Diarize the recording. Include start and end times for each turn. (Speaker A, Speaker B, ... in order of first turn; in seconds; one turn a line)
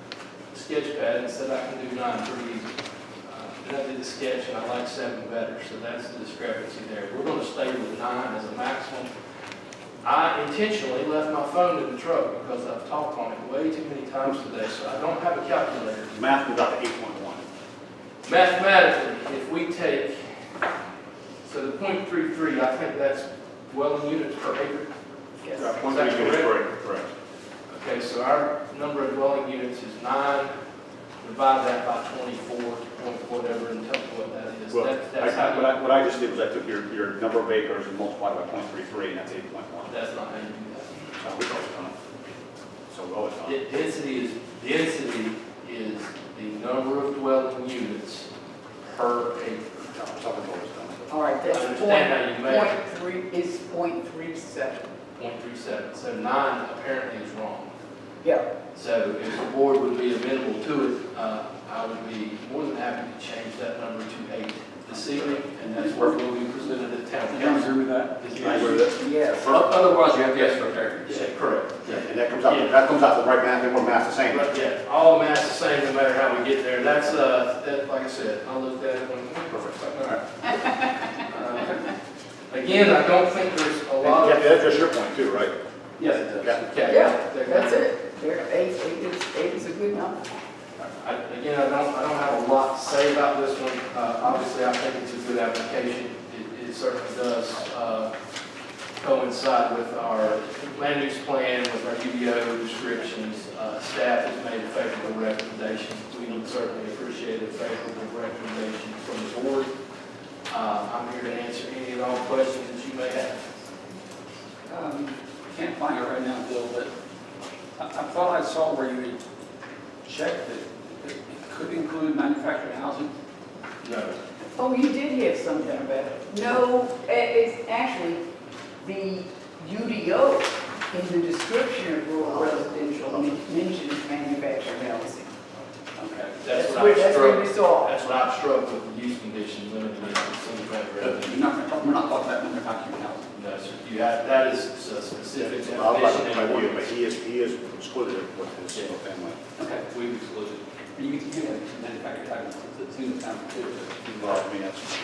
Speaker A: 0.5-2.7
Speaker A: 3.2-9.1
Speaker A: 10.0-16.1
Speaker B: 16.1-17.4
Speaker A: 18.2-20.4
Speaker A: 21.4-24.9
Speaker C: 25.4-25.7
Speaker B: 25.6-27.1
Speaker A: 25.8-26.5
Speaker A: 27.7-30.5
Speaker A: 31.2-35.8
Speaker B: 34.7-39.9
Speaker A: 39.9-40.9
Speaker B: 41.2-42.0
Speaker B: 42.9-43.5
Speaker A: 43.5-48.3
Speaker A: 48.8-49.7
Speaker B: 49.8-51.1
Speaker C: 51.1-54.9
Speaker A: 51.5-52.8
Speaker A: 55.2-57.7
Speaker A: 58.7-68.8
Speaker D: 64.9-66.1
Speaker D: 67.3-71.3
Speaker B: 68.4-69.6
Speaker A: 70.3-72.8
Speaker B: 71.9-74.5
Speaker A: 74.3-80.6
Speaker A: 81.2-81.9
Speaker A: 82.5-84.7
Speaker B: 84.0-85.5
Speaker D: 86.0-86.4
Speaker A: 86.0-87.9
Speaker C: 86.9-90.2
Speaker A: 91.0-98.1
Speaker A: 99.0-109.7
Speaker A: 110.5-113.5
Speaker D: 114.7-116.9
Speaker D: 117.8-119.2
Speaker D: 120.0-123.1
Speaker A: 123.8-124.2
Speaker C: 124.4-128.2
Speaker C: 128.8-135.3
Speaker B: 132.2-133.4
Speaker D: 136.0-136.3
Speaker A: 136.3-141.4
Speaker C: 136.5-137.9
Speaker D: 141.0-143.3
Speaker A: 143.3-146.9
Speaker B: 145.4-149.4
Speaker D: 149.6-154.4
Speaker B: 154.1-154.9